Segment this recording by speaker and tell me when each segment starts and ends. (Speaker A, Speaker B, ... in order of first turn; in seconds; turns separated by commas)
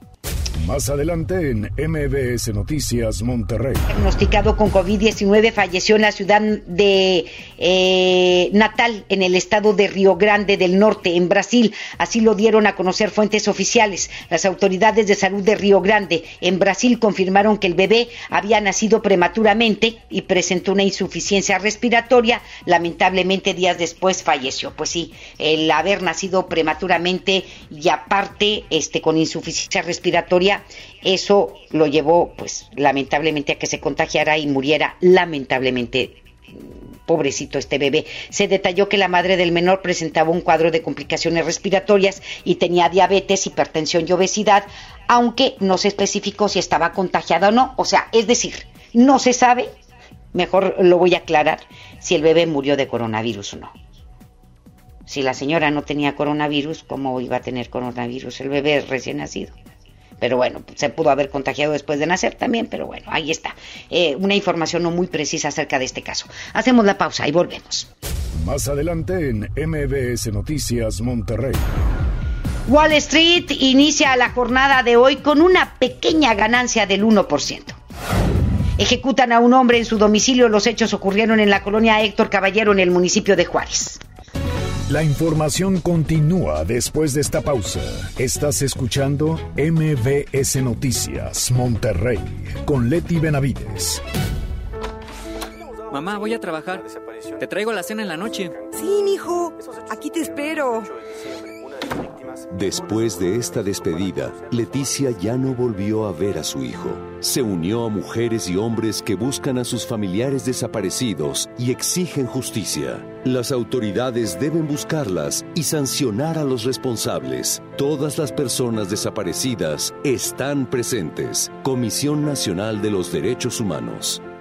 Speaker A: 0.6-3.9, Speaker B: 3.9-36.2, Speaker B: 37.0-49.7, Speaker B: 50.3-53.7, Speaker B: 55.1-59.5, Speaker B: 60.2-67.9, Speaker A: 68.3-71.7, Speaker B: 72.7-77.8, Speaker B: 78.8-84.0, Speaker A: 84.9-94.0, Speaker C: 95.9-98.6, Speaker D: 98.7-100.9, Speaker E: 102.5-124.2